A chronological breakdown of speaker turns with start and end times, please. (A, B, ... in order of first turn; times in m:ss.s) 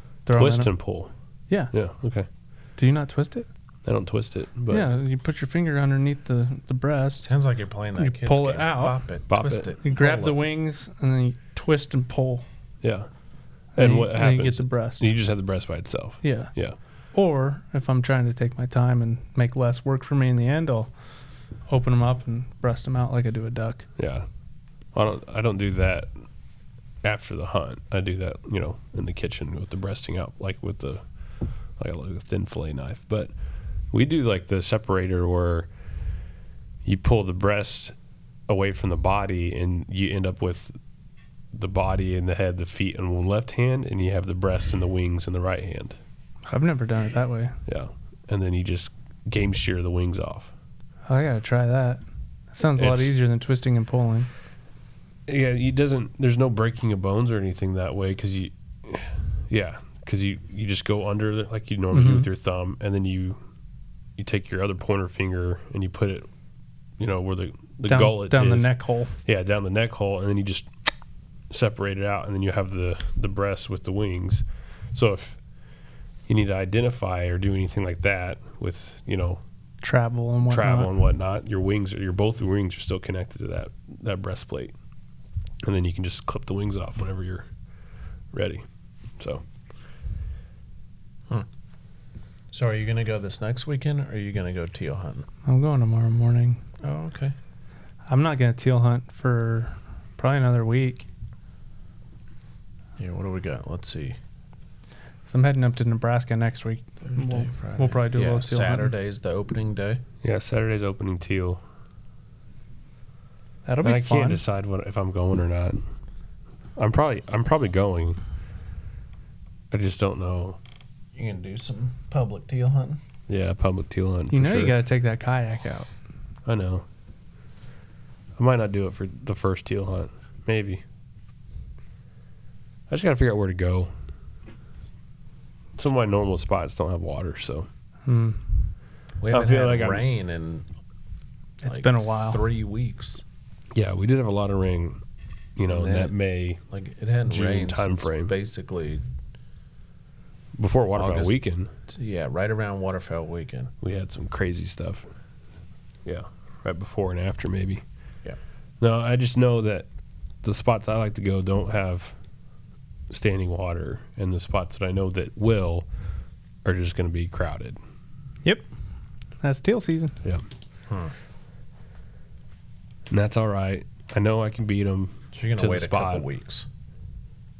0:00.3-0:00.7 A
0:00.4-0:01.1 B
0:01.7-0:02.3 B
0:02.8-0:03.5 A
0:03.8-0:04.9 B
0:04.7-0:07.3 A
0:07.2-0:10.4 C
0:08.0-0:09.0 A
0:09.3-0:09.7 B
0:09.8-0:12.4 A
0:12.8-0:13.1 B
0:13.8-0:15.1 A
0:13.8-0:16.8 B
0:16.2-0:16.5 A
0:17.1-0:20.9 A
0:21.7-0:23.9 A
0:24.0-0:24.3 B
0:24.9-0:26.1 B
0:27.0-0:31.0 B
0:31.8-0:33.3 B
0:33.9-0:35.7 B
0:36.8-0:37.9 B
0:38.5-0:40.7 B
0:41.5-0:46.0 B
0:46.5-0:47.6 A
0:47.7-0:50.5 B
0:51.1-0:52.0 A
0:52.5-0:54.3 A
0:52.8-0:53.1 B
0:55.3-1:03.4 B
1:01.9-1:02.3 A
1:04.2-1:06.3 B
1:07.0-1:10.7 B
1:07.9-1:09.2 A
1:11.5-1:15.4 B
1:16.3-1:19.4 B
1:19.8-1:20.9 A
1:20.4-1:24.7 B
1:25.6-1:27.5 B
1:28.3-1:28.6 B
1:32.5-1:35.3 C
1:35.5-1:36.6 A
1:36.8-1:37.4 C
1:38.1-1:41.1 A
1:43.0-1:44.2 C
1:45.3-1:48.9 A
1:47.0-1:50.0 C
1:50.2-1:51.6 B
1:53.7-1:54.4 A
1:53.8-1:55.8 B
1:56.8-1:58.2 B
1:59.7-2:00.6 B
2:01.2-2:03.0 C
2:03.3-2:04.8 B
2:04.3-2:05.9 A
2:06.5-2:06.9 B
2:08.4-2:10.8 B
2:12.9-2:13.9 B
2:15.8-2:17.7 B
2:18.1-2:18.5 A
2:19.2-2:20.7 C
2:19.3-2:20.0 B
2:21.6-2:22.4 A
2:21.6-2:23.2 C
2:23.7-2:25.0 B
2:25.6-2:26.6 B
2:25.7-2:26.1 C
2:26.7-2:29.0 C
2:27.3-2:28.3 B
2:30.6-2:31.7 B
2:31.0-2:31.4 C
2:31.9-2:33.7 C
2:33.8-2:35.1 B
2:36.0-2:37.8 B
2:38.8-2:39.9 B
2:40.4-2:42.2 B
2:43.1-2:45.9 B
2:46.6-2:47.8 B
2:49.4-2:50.2 A
2:50.9-2:51.1 C
2:53.1-2:56.2 B
2:55.3-2:56.7 C